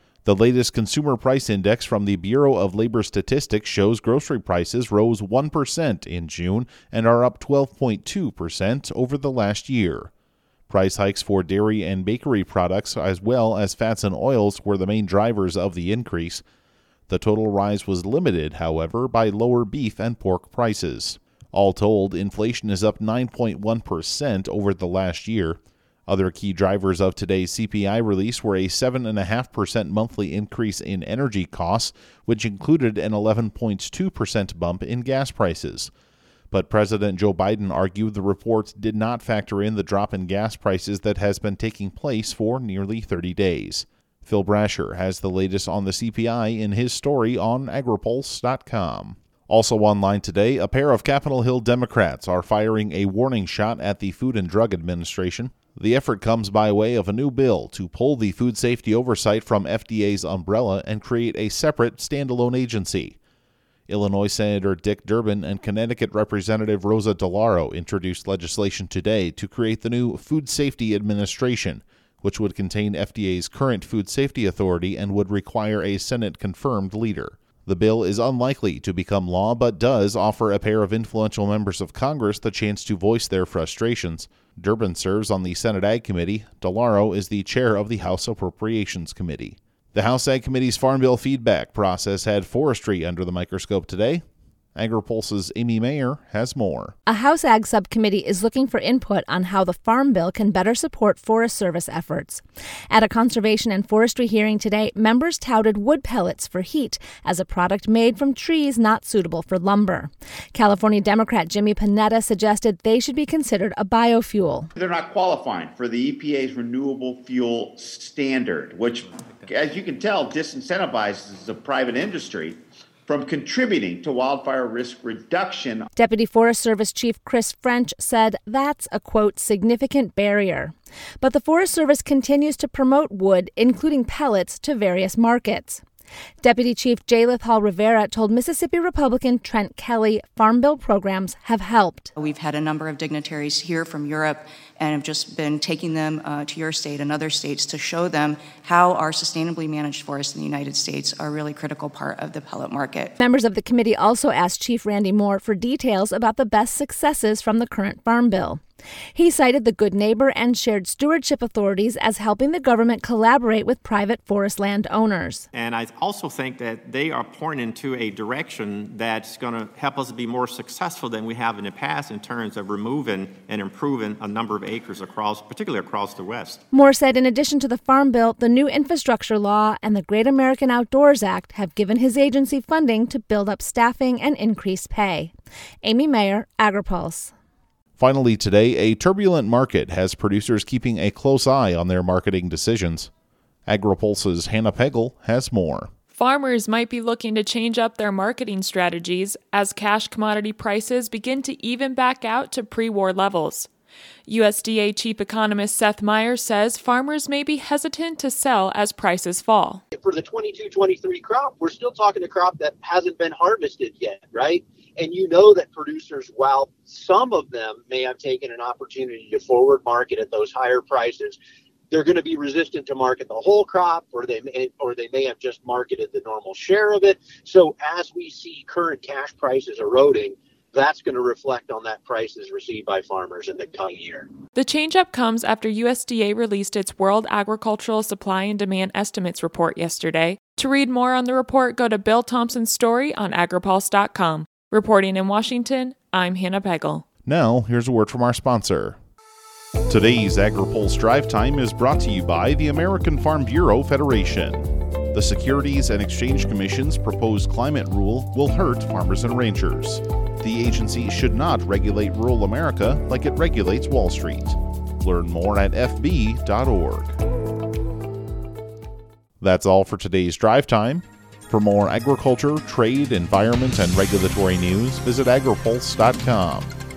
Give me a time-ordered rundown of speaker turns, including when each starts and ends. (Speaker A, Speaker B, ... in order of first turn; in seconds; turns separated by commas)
Speaker A: 0.2-10.1, Speaker A: 10.7-16.4, Speaker A: 17.1-35.9, Speaker A: 36.5-63.2, Speaker A: 63.9-94.2, Speaker A: 94.8-97.0, Speaker B: 97.1-114.7, Speaker C: 114.8-125.9, Speaker B: 126.0-135.8, Speaker B: 136.4-142.1, Speaker D: 142.2-153.1, Speaker B: 153.2-158.6, Speaker B: 159.2-165.5, Speaker E: 165.5-176.6, Speaker B: 176.7-185.3, Speaker B: 185.8-187.3, Speaker A: 188.0-193.1, Speaker A: 193.7-195.9, Speaker F: 196.1-203.7, Speaker F: 204.3-209.8, Speaker G: 209.9-221.4, Speaker G: 221.9-234.3, Speaker F: 234.6-247.1, Speaker A: 247.3-249.0, Speaker A: 249.9-267.2, Speaker A: 269.4-276.7